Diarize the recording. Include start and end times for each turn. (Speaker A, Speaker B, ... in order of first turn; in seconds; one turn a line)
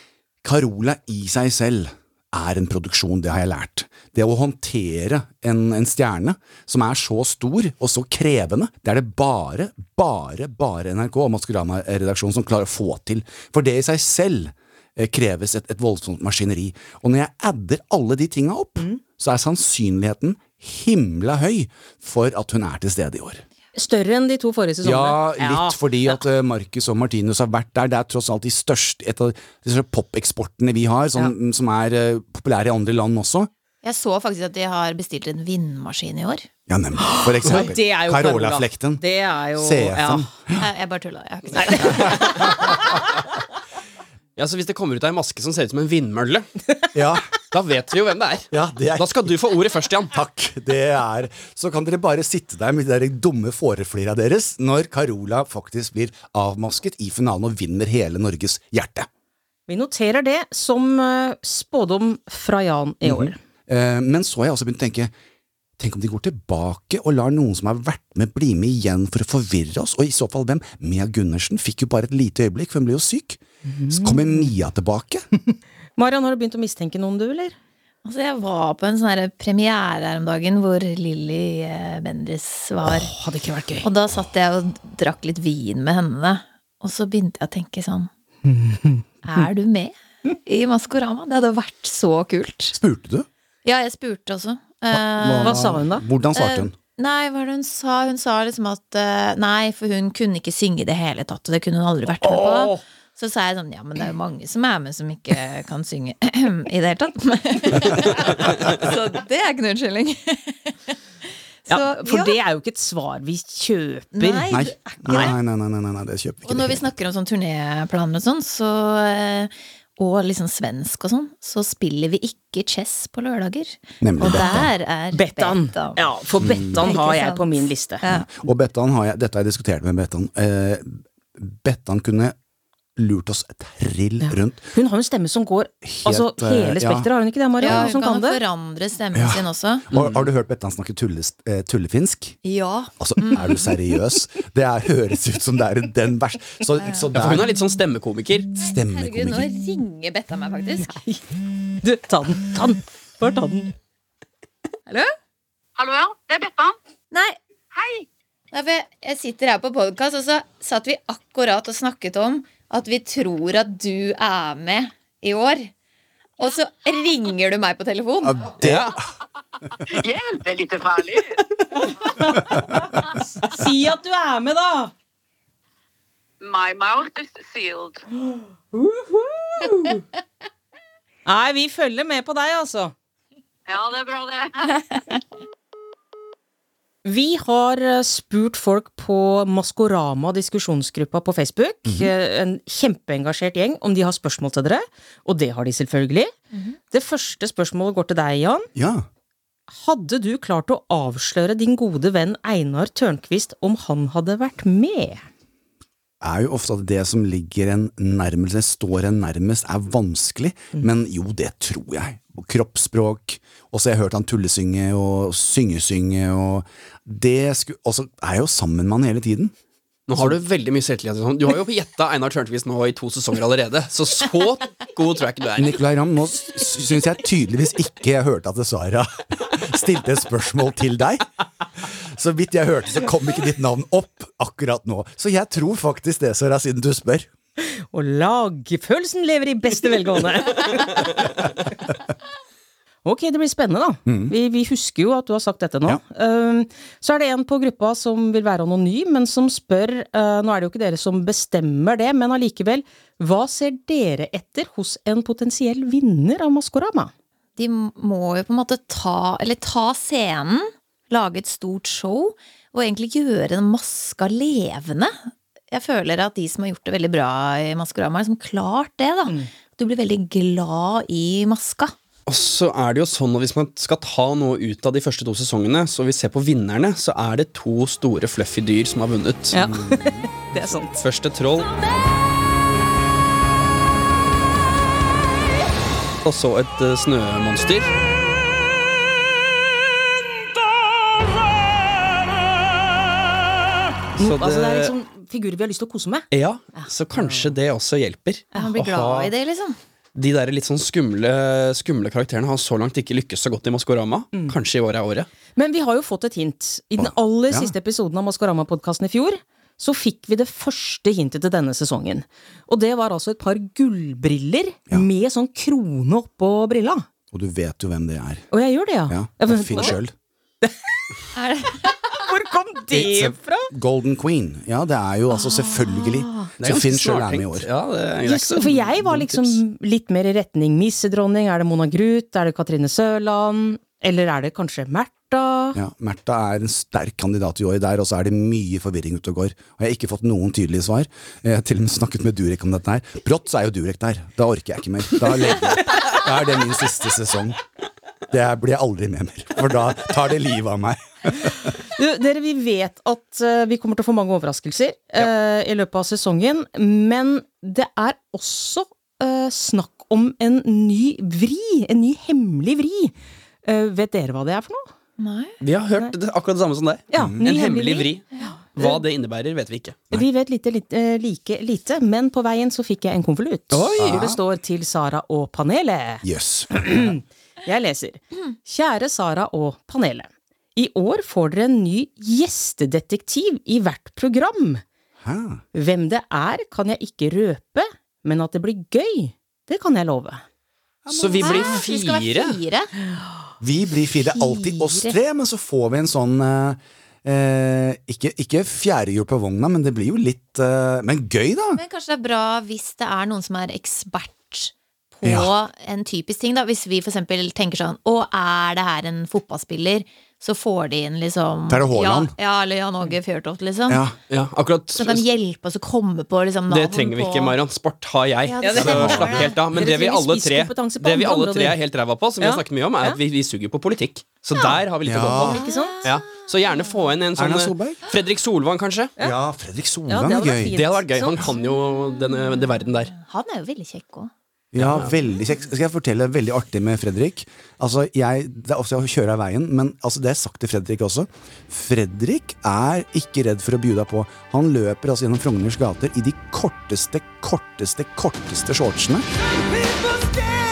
Speaker A: 0.4-23.4
Speaker B: 23.7-26.2
Speaker A: 24.8-33.5
Speaker C: 33.8-36.5
Speaker A: 36.7-39.0
Speaker B: 37.0-40.3
Speaker A: 39.5-40.6
Speaker C: 40.6-42.7
Speaker B: 41.5-42.9
Speaker A: 41.8-42.7
Speaker D: 44.4-46.5
Speaker A: 46.9-47.2
Speaker D: 47.5-50.1
Speaker A: 48.5-49.3
Speaker A: 50.1-59.1
Speaker B: 59.7-63.4
Speaker A: 63.0-65.1
Speaker A: 65.8-75.2
Speaker B: 73.7-74.5
Speaker B: 76.0-77.5
Speaker C: 78.0-83.1
Speaker B: 83.0-83.9
Speaker C: 83.8-88.1
Speaker B: 88.5-89.0
Speaker C: 89.2-92.8
Speaker A: 92.7-93.3
Speaker C: 93.6-95.7
Speaker A: 94.9-96.7
Speaker B: 95.4-96.0
Speaker C: 96.3-110.9
Speaker B: 102.2-102.8
Speaker C: 111.7-112.4
Speaker B: 111.7-114.5
Speaker C: 114.1-115.3
Speaker A: 114.5-116.9
Speaker B: 115.1-115.3
Speaker C: 116.4-126.0
Speaker A: 124.0-124.7
Speaker B: 124.2-128.1
Speaker A: 126.4-126.9
Speaker C: 126.7-128.3
Speaker A: 128.1-132.3
Speaker A: 132.9-134.7
Speaker B: 134.2-138.4
Speaker A: 135.8-137.1
Speaker C: 137.6-139.8
Speaker A: 139.1-142.4
Speaker D: 139.9-140.2
Speaker C: 142.4-143.7
Speaker A: 143.0-147.5
Speaker C: 146.8-147.1
Speaker D: 147.1-148.5
Speaker A: 148.6-149.5
Speaker C: 148.8-151.0
Speaker B: 150.9-151.2
Speaker B: 151.8-153.7
Speaker E: 155.8-156.7
Speaker C: 157.1-157.4
Speaker E: 157.7-158.1
Speaker C: 158.5-165.7
Speaker C: 166.4-168.5
Speaker A: 168.2-169.0
Speaker D: 168.6-168.9
Speaker E: 169.8-171.4
Speaker B: 172.1-172.6
Speaker B: 173.3-174.9
Speaker E: 176.4-178.0
Speaker B: 178.7-179.7
Speaker B: 181.2-182.9
Speaker E: 183.7-184.7
Speaker B: 187.0-196.3
Speaker A: 191.8-192.1
Speaker B: 196.9-198.7
Speaker A: 198.7-199.1
Speaker B: 199.8-205.2
Speaker A: 206.2-219.5
Speaker D: 220.1-225.8
Speaker A: 225.6-231.2
Speaker A: 232.1-237.3
Speaker B: 237.6-241.0
Speaker B: 243.0-257.1
Speaker A: 244.1-244.3
Speaker C: 257.6-271.9
Speaker D: 272.3-279.6
Speaker B: 279.5-281.0
Speaker A: 279.6-280.3
Speaker D: 281.0-281.7
Speaker D: 286.2-287.9
Speaker D: 294.2-294.9
Speaker B: 294.2-297.3
Speaker D: 296.3-299.3
Speaker C: 298.5-299.8
Speaker D: 300.1-305.3
Speaker B: 305.6-317.0
Speaker A: 307.0-307.7
Speaker A: 317.3-318.5
Speaker B: 318.5-320.0
Speaker A: 319.1-320.1
Speaker C: 321.3-322.1
Speaker B: 322.1-323.7
Speaker A: 322.9-327.7
Speaker D: 326.6-329.5
Speaker B: 328.2-335.8
Speaker A: 335.7-347.6
Speaker A: 348.3-351.6
Speaker B: 351.9-363.1
Speaker B: 363.6-364.9
Speaker C: 365.2-365.6
Speaker D: 365.6-370.1
Speaker B: 367.1-368.5
Speaker A: 367.1-367.4
Speaker B: 370.1-384.8
Speaker D: 373.7-374.2
Speaker A: 374.0-374.4
Speaker A: 376.2-377.1
Speaker A: 385.2-385.6
Speaker B: 385.7-390.4
Speaker A: 391.0-391.7
Speaker D: 391.1-392.6
Speaker C: 391.4-392.9
Speaker A: 393.6-401.8
Speaker C: 394.3-394.9
Speaker C: 401.7-414.0
Speaker A: 405.2-405.5
Speaker A: 411.7-412.3
Speaker A: 413.9-414.1
Speaker D: 414.3-415.2
Speaker C: 414.9-417.6
Speaker D: 416.7-429.1
Speaker C: 418.5-419.5
Speaker B: 418.6-421.8
Speaker A: 418.8-419.5
Speaker B: 422.4-423.2
Speaker A: 425.0-425.6
Speaker B: 425.2-426.0
Speaker C: 425.6-426.1
Speaker A: 427.4-428.0
Speaker A: 429.2-430.8
Speaker B: 430.1-431.4
Speaker D: 430.7-433.1
Speaker C: 433.1-434.3
Speaker A: 434.7-449.3
Speaker D: 434.8-435.1